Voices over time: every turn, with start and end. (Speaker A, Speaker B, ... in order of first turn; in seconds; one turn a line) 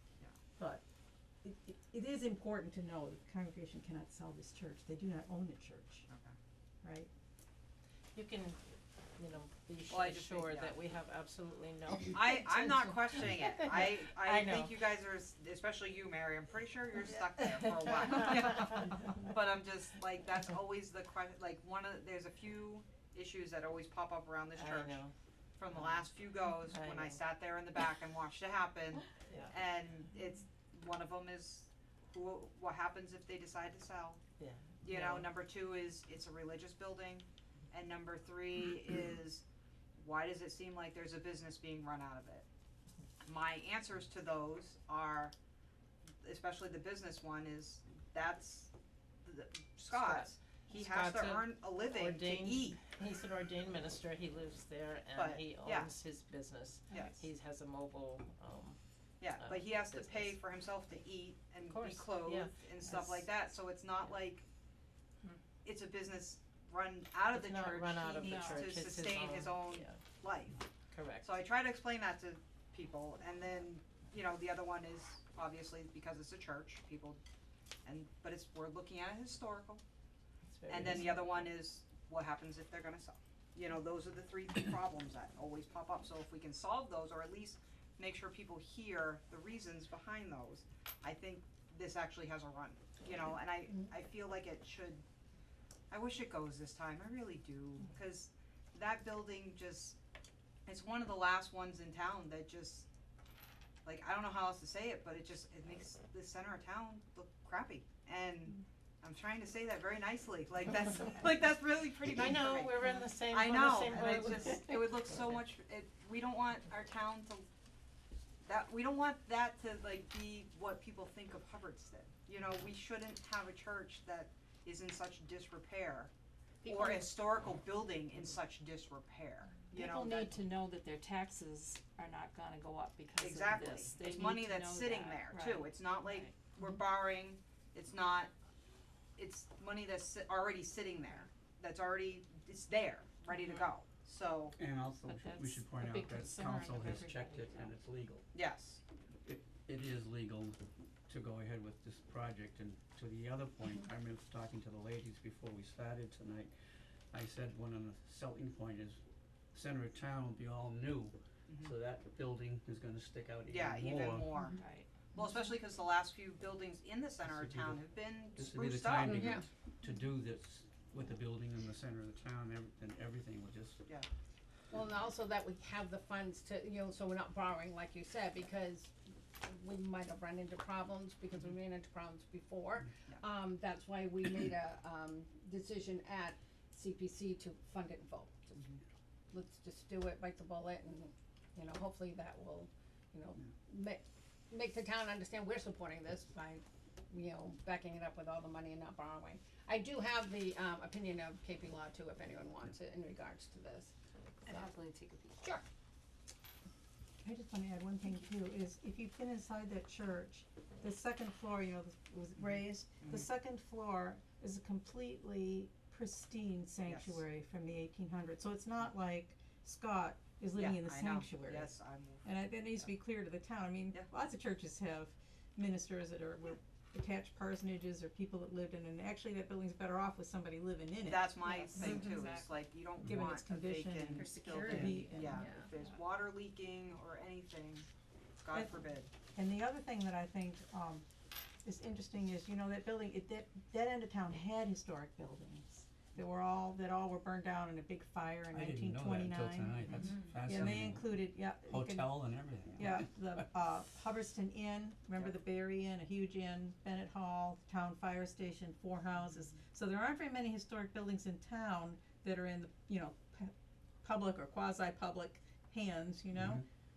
Speaker A: 0.6-0.8
Speaker A: 1.4-6.1
Speaker B: 6.1-6.4
Speaker A: 6.8-7.1
Speaker C: 8.1-14.9
Speaker B: 9.9-10.8
Speaker B: 12.1-25.0
Speaker C: 17.6-19.0
Speaker C: 24.6-25.1
Speaker B: 25.6-34.2
Speaker C: 25.7-27.2
Speaker C: 29.2-29.6
Speaker C: 34.4-35.3
Speaker B: 34.8-39.4
Speaker B: 40.0-42.5
Speaker B: 43.2-45.4
Speaker B: 46.2-48.7
Speaker B: 49.2-52.8
Speaker C: 49.9-58.8
Speaker B: 55.1-55.9
Speaker B: 56.9-57.2
Speaker B: 59.2-64.5
Speaker C: 59.3-60.4
Speaker C: 61.6-63.0
Speaker B: 65.6-70.6
Speaker C: 67.3-70.0
Speaker D: 68.2-68.6
Speaker C: 70.9-71.3
Speaker B: 71.2-77.2
Speaker B: 77.8-79.8
Speaker C: 80.5-81.6
Speaker B: 80.7-95.0
Speaker B: 95.9-100.0
Speaker B: 100.7-102.9
Speaker B: 103.8-117.5
Speaker C: 112.1-115.3
Speaker B: 118.5-126.1
Speaker D: 126.6-127.1
Speaker B: 126.6-130.4
Speaker D: 129.7-135.6
Speaker B: 133.2-138.3
Speaker E: 134.4-134.9
Speaker B: 139.2-144.6
Speaker F: 144.6-148.3
Speaker C: 145.1-145.6
Speaker E: 145.8-146.3
Speaker C: 146.2-147.7
Speaker B: 148.3-148.8
Speaker F: 149.2-156.5
Speaker F: 157.1-159.0
Speaker F: 159.5-164.3
Speaker B: 161.5-161.7
Speaker B: 163.5-164.6
Speaker D: 164.5-164.9
Speaker B: 165.1-169.5
Speaker F: 167.2-167.8
Speaker F: 168.3-173.8
Speaker D: 169.2-169.4
Speaker D: 174.7-188.6
Speaker B: 188.6-188.8
Speaker D: 189.3-204.7
Speaker E: 204.4-205.4
Speaker A: 207.2-232.3
Speaker B: 212.4-213.3
Speaker B: 216.8-217.2
Speaker B: 220.6-222.3
Speaker B: 231.0-237.9
Speaker D: 231.6-232.5
Speaker A: 233.0-235.5
Speaker D: 234.2-235.7
Speaker B: 238.4-239.1
Speaker A: 239.3-241.1
Speaker A: 241.6-266.6
Speaker F: 248.5-253.1
Speaker F: 266.3-266.6